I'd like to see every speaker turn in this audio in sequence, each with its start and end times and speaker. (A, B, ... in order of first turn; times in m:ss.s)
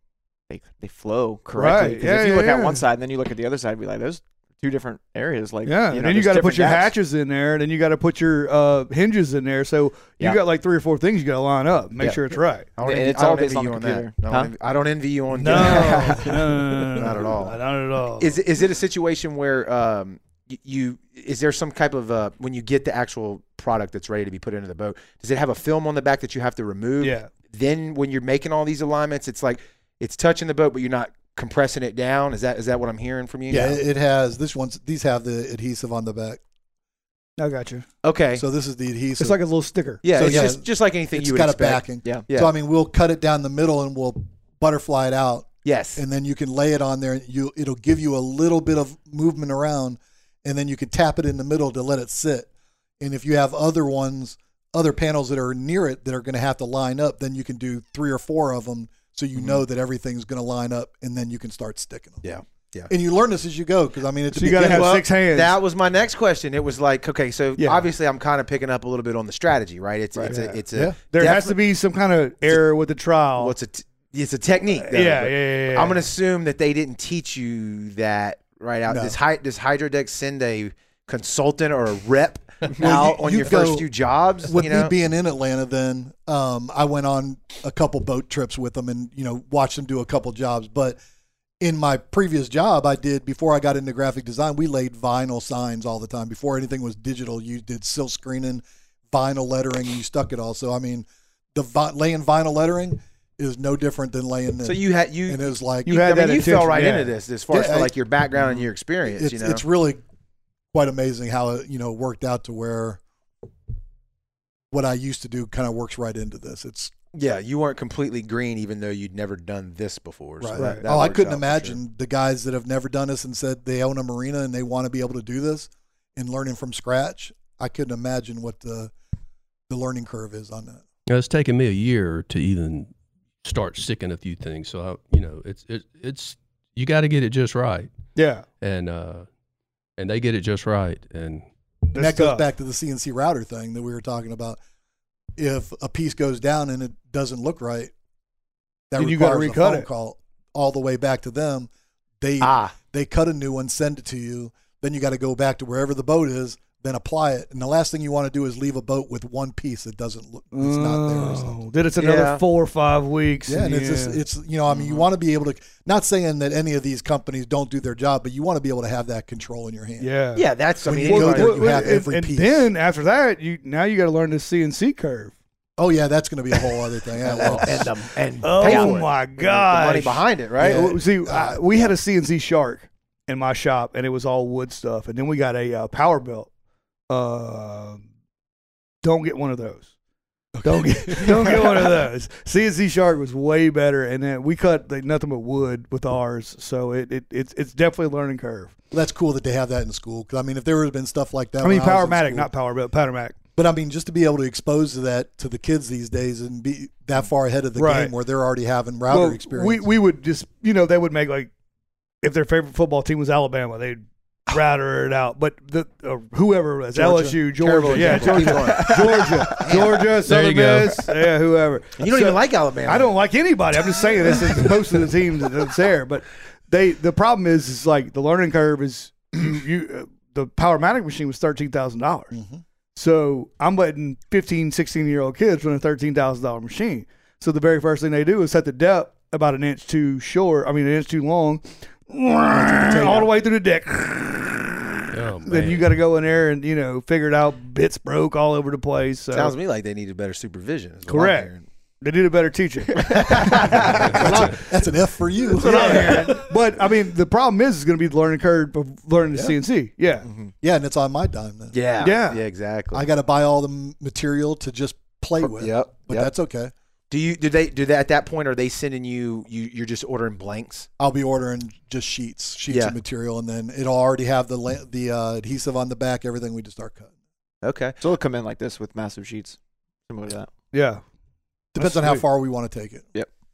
0:00.5-0:06.9 A
0:01.6-0:02.8 B
0:05.6-0:12.7 B
0:12.0-0:14.5 A
0:12.8-0:17.6 C
0:15.3-0:18.4 B
0:15.5-0:16.2 A
0:18.2-0:33.8 C
0:27.0-0:27.3 B
0:33.5-0:36.4 D
0:37.4-0:37.9 B
0:38.0-0:38.4 C
0:38.4-0:39.4 D
0:39.2-0:40.3 B
0:40.0-0:42.5 C
0:40.0-0:52.5 D
0:45.6-0:46.0 C
0:53.0-1:02.2 D
0:59.4-0:59.6 C
1:02.2-1:02.9 C
1:02.9-1:05.0 D
1:04.3-1:05.6 B
1:04.6-1:11.6 C
1:07.6-1:07.9 B
1:10.2-1:13.6 B
1:13.4-1:24.9 C
1:14.8-1:16.0 B
1:18.9-1:19.2 D
1:22.7-1:23.9 D
1:24.4-1:31.0 D
1:31.6-1:46.0 D
1:44.6-1:49.6 C
1:45.9-1:47.1 B
1:47.5-1:47.9 D
1:49.1-1:50.0 D
1:50.7-1:53.0 D
1:54.7-1:56.9 D
1:57.1-2:01.8 C
2:00.4-2:08.9 D
2:00.6-2:00.8 B
2:09.7-2:10.8 D
2:11.1-2:12.9 E
2:13.4-2:17.9 E
2:18.2-2:18.4 B
2:18.6-2:19.3 E
2:20.0-2:21.5 E
2:21.9-2:22.4 B
2:21.9-2:24.6 D
2:25.4-2:27.9 D
2:28.9-2:31.7 D
2:29.0-2:29.9 B
2:32.2-2:41.6 D
2:32.4-2:32.7 C
2:40.5-2:44.2 B
2:42.0-2:42.4 C
2:43.5-2:50.1 D
2:44.7-2:45.0 C
2:50.0-2:50.4 B
2:50.4-2:51.7 C
2:50.8-2:52.7 D
2:51.1-2:55.3 B
2:55.8-2:57.9 D
2:57.2-3:00.9 C
2:57.4-2:57.7 B
2:58.4-3:06.5 B
3:00.6-3:01.6 D
3:07.1-3:08.0 B
3:09.0-3:09.9 B
3:10.5-3:11.9 D
3:10.6-3:18.8 B
3:18.9-3:22.5 D
3:21.6-3:23.4 B
3:23.6-3:29.9 D
3:27.8-3:28.1 B
3:29.1-3:31.5 B
3:32.2-3:52.3 B
3:36.9-3:38.6 D
3:37.6-3:40.1 C
3:38.7-3:39.1 A
3:40.2-3:41.2 E
3:42.0-3:43.2 C
3:44.2-3:44.6 C
3:52.3-3:52.6 D
3:53.0-4:04.7 B
4:02.5-4:03.3 D
4:05.1-4:05.9 E
4:05.4-4:09.6 B
4:09.3-4:11.7 C
4:11.1-4:14.5 B
4:13.0-4:14.6 C
4:13.5-4:16.4 D
4:15.6-4:16.4 C
4:15.6-4:20.3 B
4:20.2-4:20.5 C
4:20.6-4:21.8 D
4:21.7-4:23.1 C
4:22.0-4:22.4 B
4:22.9-4:26.7 D
4:25.4-4:26.3 C
4:27.1-4:30.9 C
4:31.0-4:37.1 D
4:32.7-4:33.0 C
4:37.6-4:38.0 C
4:38.0-4:39.6 A
4:40.1-4:40.5 A
4:40.7-4:41.0 B
4:41.7-4:43.1 D
4:41.8-4:42.2 B